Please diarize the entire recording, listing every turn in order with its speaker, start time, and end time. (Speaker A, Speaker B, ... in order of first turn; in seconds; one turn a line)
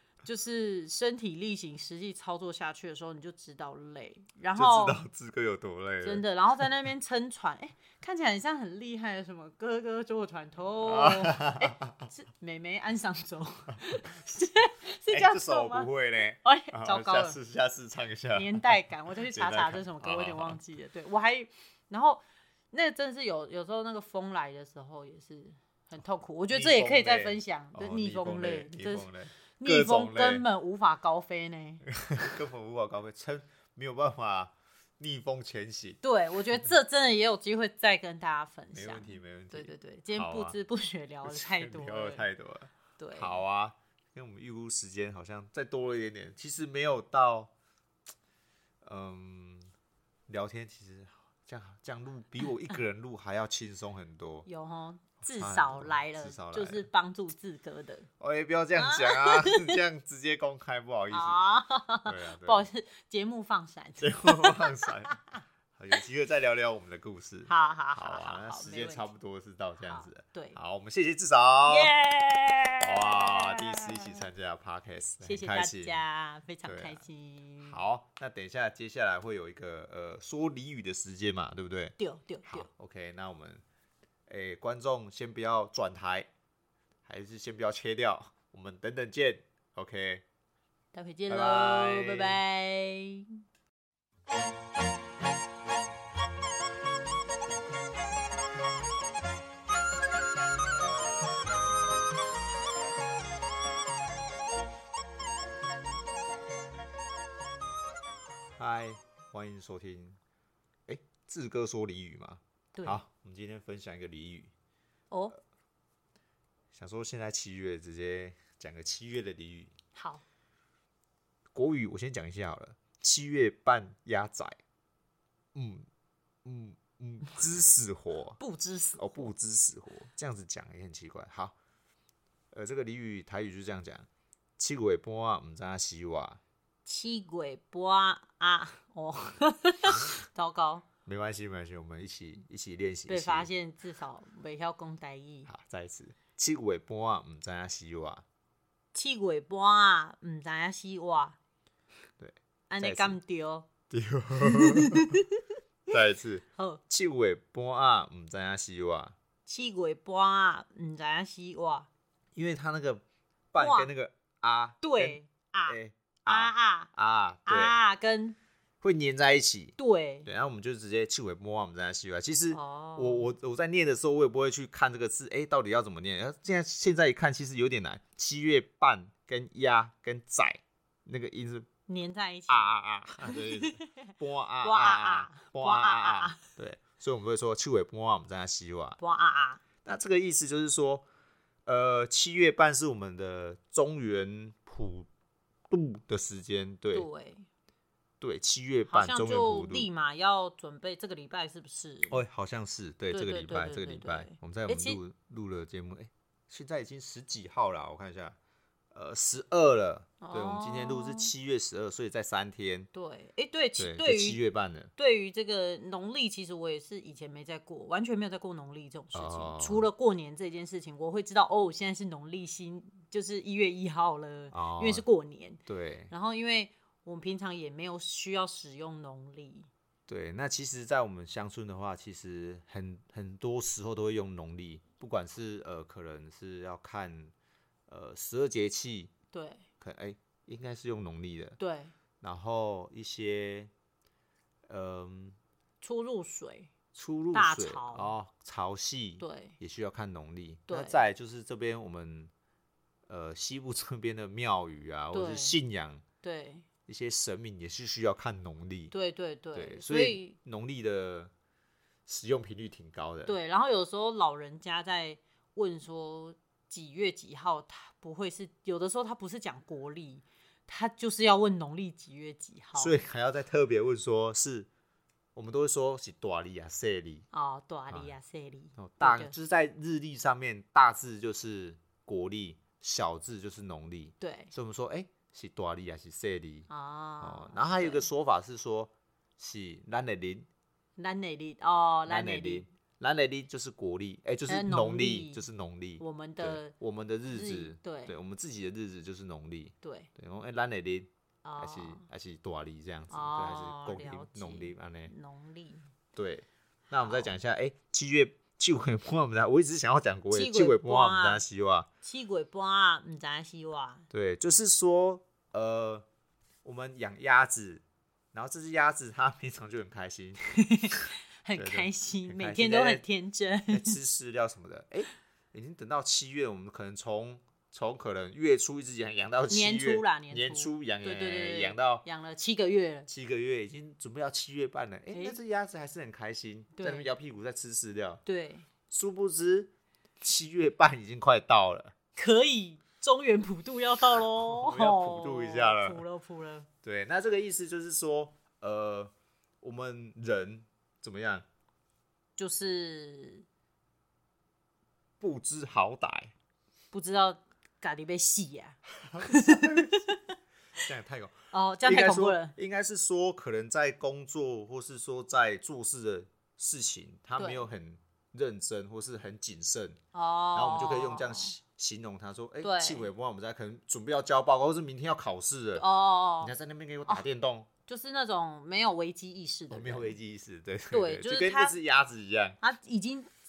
Speaker A: 0.2-5.0
Speaker B: 4.6-6.2
Speaker A: 6.0-15.9
Speaker B: 10.8-12.1
Speaker B: 15.1-18.7
Speaker A: 16.4-17.4
Speaker A: 18.3-31.8
Speaker B: 19.3-20.6
Speaker B: 26.5-30.5
Speaker B: 31.9-36.0
Speaker A: 36.0-42.3
Speaker B: 38.7-40.6
Speaker B: 41.3-47.5
Speaker A: 43.0-43.4
Speaker B: 48.8-49.7
Speaker B: 50.3-54.5
Speaker A: 54.5-58.1
Speaker B: 55.2-56.9
Speaker B: 58.2-61.4
Speaker A: 58.8-59.8
Speaker A: 61.1-65.2
Speaker B: 62.0-62.7
Speaker B: 64.0-65.2
Speaker B: 65.8-71.9
Speaker A: 67.5-69.1
Speaker A: 69.8-70.6
Speaker A: 71.7-74.3
Speaker B: 72.8-76.0
Speaker A: 75.2-77.8
Speaker B: 76.6-77.0
Speaker B: 77.6-83.6
Speaker A: 82.0-82.7
Speaker B: 84.3-86.3
Speaker B: 87.1-90.2
Speaker A: 90.9-93.4
Speaker B: 91.3-92.4
Speaker B: 108.6-110.2
Speaker B: 110.9-114.5
Speaker B: 116.7-119.7
Speaker A: 119.9-120.2
Speaker B: 121.5-124.6
Speaker B: 125.5-125.9
Speaker B: 126.5-128.4
Speaker A: 128.4-129.3
Speaker B: 129.0-131.6
Speaker B: 132.5-134.1
Speaker B: 134.6-136.4
Speaker A: 136.8-140.9
Speaker B: 141.1-143.5
Speaker A: 143.1-145.5
Speaker B: 145.5-148.2
Speaker A: 148.9-151.4
Speaker B: 152.2-153.2
Speaker A: 152.7-153.7
Speaker B: 153.9-155.2
Speaker A: 154.4-155.4
Speaker B: 155.9-159.2
Speaker A: 156.6-156.8
Speaker A: 159.5-161.9
Speaker B: 162.3-167.8
Speaker A: 163.6-163.9
Speaker A: 164.8-166.9
Speaker A: 167.5-168.4
Speaker B: 168.8-181.7
Speaker A: 169.8-170.3
Speaker A: 172.5-173.3
Speaker A: 181.9-182.7
Speaker B: 182.5-189.0
Speaker A: 183.2-184.1
Speaker A: 184.6-186.4
Speaker A: 189.0-189.6
Speaker B: 189.8-191.1
Speaker B: 191.7-195.1
Speaker B: 195.7-197.1
Speaker A: 196.9-197.5
Speaker B: 198.2-199.9
Speaker A: 198.9-202.2
Speaker B: 202.1-208.4
Speaker A: 203.1-205.0
Speaker B: 208.9-212.9
Speaker A: 210.2-211.3
Speaker A: 212.9-214.4
Speaker B: 213.8-214.9
Speaker A: 215.0-229.7
Speaker B: 219.1-219.9
Speaker B: 224.5-225.1
Speaker B: 225.7-226.1
Speaker B: 230.1-237.3
Speaker B: 237.9-239.1
Speaker A: 239.3-239.6
Speaker B: 239.8-241.6
Speaker A: 241.6-241.9
Speaker B: 242.2-243.7
Speaker B: 244.7-245.4
Speaker A: 245.8-246.7
Speaker B: 246.9-252.3
Speaker A: 247.3-248.1
Speaker A: 249.2-249.6
Speaker A: 250.7-251.0
Speaker B: 253.1-256.0
Speaker A: 255.1-255.6
Speaker A: 256.2-256.7
Speaker B: 256.9-258.9
Speaker A: 258.9-260.4
Speaker B: 259.5-261.3
Speaker B: 262.1-263.4
Speaker A: 263.2-273.0
Speaker B: 272.8-274.7
Speaker B: 275.4-277.3
Speaker A: 277.3-279.3
Speaker B: 278.8-286.7
Speaker A: 284.2-284.5
Speaker A: 286.7-288.0
Speaker B: 287.2-290.5
Speaker A: 291.0-292.7
Speaker B: 292.1-301.1
Speaker A: 294.5-295.4
Speaker A: 296.0-296.7
Speaker A: 297.3-298.1
Speaker A: 299.8-300.1
Speaker A: 301.4-302.1
Speaker B: 301.6-305.1
Speaker A: 303.1-305.9
Speaker B: 306.2-311.9
Speaker A: 307.1-307.3
Speaker A: 310.3-311.4
Speaker A: 312.0-314.1
Speaker B: 314.1-316.1
Speaker B: 316.6-323.1
Speaker A: 320.6-324.0
Speaker B: 323.7-332.1
Speaker A: 329.5-333.1
Speaker B: 333.1-338.2
Speaker A: 335.1-335.4
Speaker A: 336.8-337.1
Speaker A: 338.3-338.7
Speaker B: 338.9-341.9
Speaker A: 342.2-346.7
Speaker B: 344.5-346.0
Speaker B: 346.8-351.5
Speaker A: 352.4-353.5
Speaker B: 355.2-356.3
Speaker A: 356.9-360.2
Speaker B: 359.1-360.1
Speaker B: 360.8-370.0
Speaker A: 361.5-362.6
Speaker A: 367.4-367.7
Speaker A: 370.1-371.6
Speaker B: 370.5-375.9
Speaker A: 372.6-373.1
Speaker A: 375.8-376.5
Speaker B: 376.4-377.7
Speaker A: 377.9-380.2
Speaker B: 379.7-382.6
Speaker A: 380.9-381.8
Speaker A: 382.6-383.3